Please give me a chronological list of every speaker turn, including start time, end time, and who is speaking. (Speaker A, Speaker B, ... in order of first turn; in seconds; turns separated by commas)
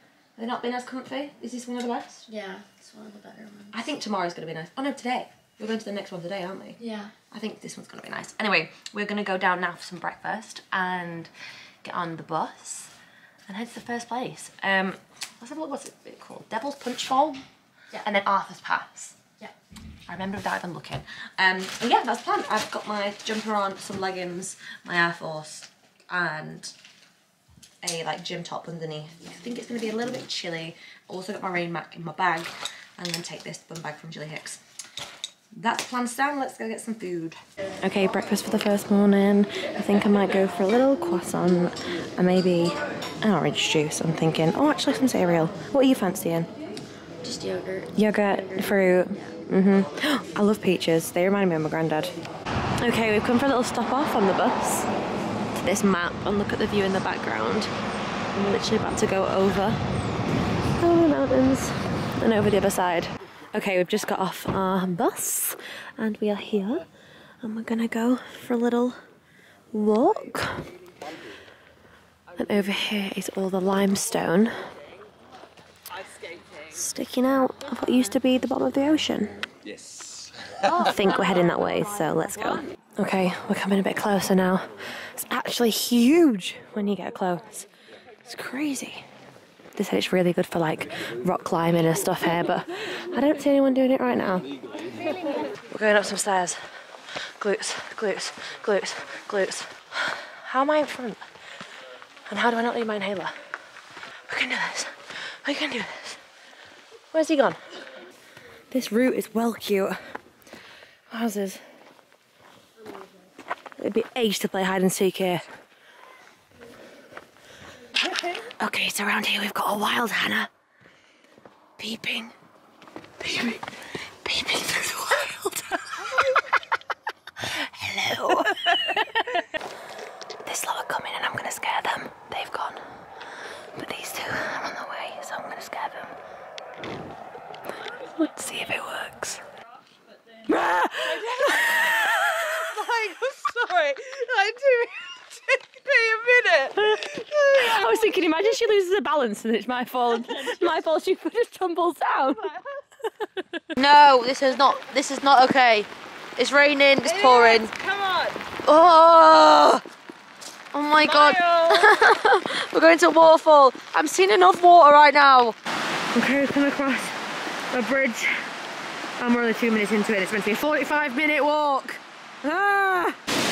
Speaker A: 0.4-2.2, Speaker B: 2.3-3.8, Speaker A: 3.7-6.8, Speaker B: 6.8-7.1, Speaker A: 7.3-11.3, Speaker A: 11.8-12.9, Speaker A: 13.5-17.4, Speaker A: 18.0-19.1, Speaker A: 20.1-26.7, Speaker A: 27.8-34.6, Speaker A: 35.5-46.5, Speaker B: 47.2-49.3, Speaker A: 48.0-52.1, Speaker A: 52.8-54.9, Speaker A: 55.5-57.7, Speaker A: 58.3-59.8, Speaker A: 60.8-66.8, Speaker A: 67.4-69.0, Speaker A: 69.7-70.6, Speaker A: 72.4-74.5, Speaker C: 75.9-76.7, Speaker A: 76.7-79.4, Speaker A: 80.8-87.7, Speaker C: 81.0-81.6, Speaker A: 88.3-89.0, Speaker A: 89.8-94.5, Speaker A: 95.7-96.6, Speaker A: 97.4-101.2, Speaker A: 102.3-103.3, Speaker A: 104.3-106.2, Speaker A: 107.1-107.6, Speaker A: 108.7-110.0, Speaker A: 111.1-111.6, Speaker A: 113.8-115.5, Speaker A: 118.6-120.5, Speaker A: 121.8-122.3, Speaker A: 123.2-123.6, Speaker A: 124.2-126.0, Speaker A: 127.5-129.0, Speaker A: 130.5-132.8, Speaker A: 133.8-136.1, Speaker A: 138.2-139.4, Speaker A: 140.5-142.6, Speaker C: 141.0-148.1, Speaker A: 146.8-152.5, Speaker A: 153.8-157.7, Speaker C: 157.0-158.4, Speaker A: 158.6-159.8, Speaker A: 160.7-165.6, Speaker C: 161.0-161.9, Speaker A: 166.1-167.2, Speaker A: 167.7-168.3, Speaker A: 169.2-173.2